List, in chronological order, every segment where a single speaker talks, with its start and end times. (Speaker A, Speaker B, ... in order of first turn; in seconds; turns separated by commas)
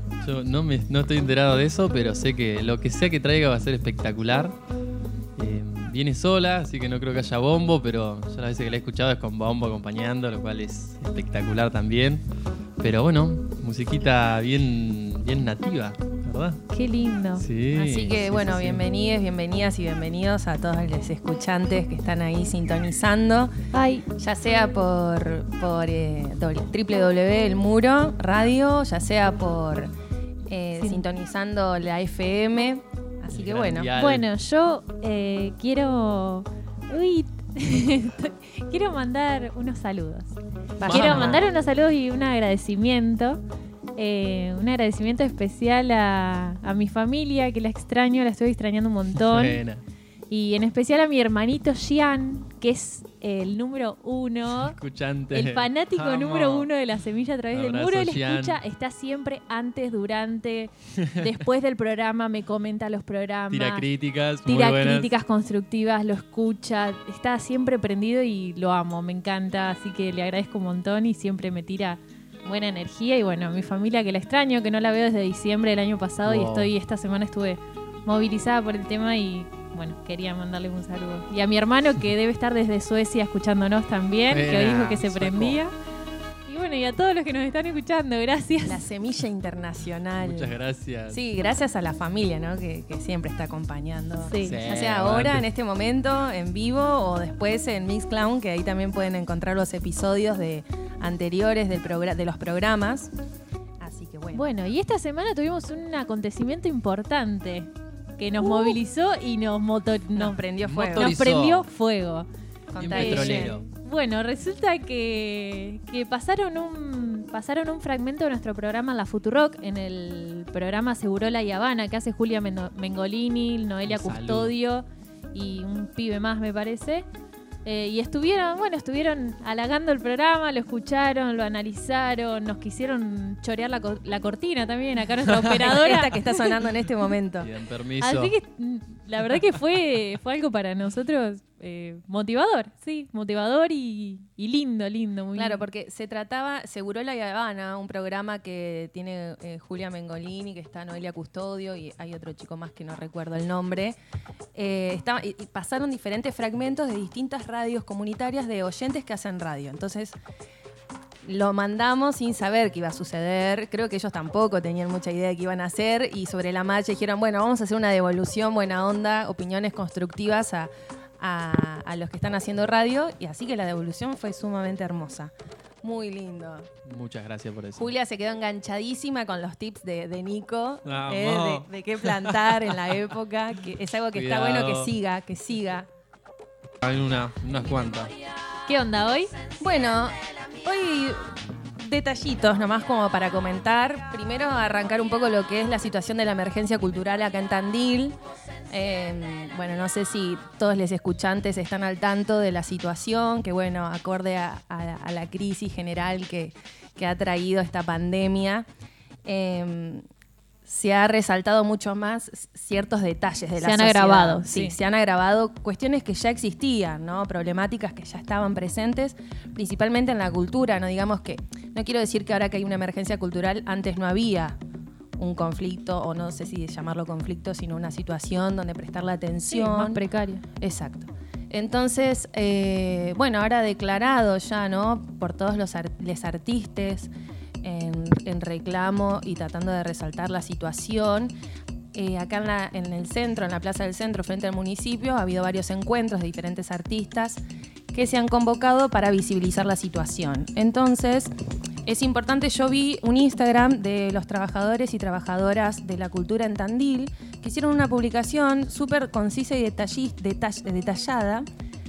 Speaker A: 0.2-4.5, Speaker A: 5.4-12.2, Speaker A: 12.8-16.6, Speaker B: 16.7-17.4, Speaker A: 17.4-18.8, Speaker C: 17.8-23.5, Speaker B: 23.7-24.1, Speaker C: 24.2-29.9, Speaker C: 30.5-33.9, Speaker B: 30.8-31.0, Speaker A: 33.3-34.3, Speaker B: 34.0-43.4, Speaker C: 40.8-41.4, Speaker A: 40.9-41.4, Speaker B: 44.0-49.6, Speaker A: 49.2-49.8, Speaker B: 50.3-54.8, Speaker A: 54.6-56.7, Speaker B: 55.3-63.9, Speaker A: 57.5-58.6, Speaker A: 61.0-61.4, Speaker A: 63.5-65.1, Speaker B: 64.5-85.7, Speaker A: 76.2-76.7, Speaker A: 84.3-85.6, Speaker B: 86.5-88.8, Speaker C: 88.6-90.6, Speaker A: 90.2-91.2, Speaker C: 91.1-103.1, Speaker B: 94.2-94.6, Speaker A: 94.4-95.5, Speaker C: 103.8-104.5, Speaker B: 104.3-110.4, Speaker C: 108.4-108.8, Speaker C: 110.2-111.2, Speaker A: 110.7-111.7, Speaker B: 111.0-112.3, Speaker C: 112.7-113.6, Speaker A: 112.8-113.6, Speaker B: 112.9-127.1, Speaker A: 123.9-124.5, Speaker B: 127.7-136.4, Speaker C: 135.6-137.5, Speaker A: 137.4-138.3, Speaker B: 138.0-145.6, Speaker C: 145.3-154.0, Speaker C: 154.5-160.2, Speaker C: 161.2-176.7, Speaker A: 176.9-177.9, Speaker C: 177.8-185.9, Speaker A: 180.9-183.0, Speaker A: 184.1-184.9, Speaker A: 186.8-188.1, Speaker B: 188.7-189.3, Speaker C: 189.6-208.7, Speaker C: 209.2-210.1, Speaker C: 210.7-224.6, Speaker B: 213.6-214.8, Speaker C: 225.2-237.1, Speaker B: 229.5-230.4, Speaker C: 237.6-241.3, Speaker C: 241.9-251.3, Speaker C: 251.9-261.5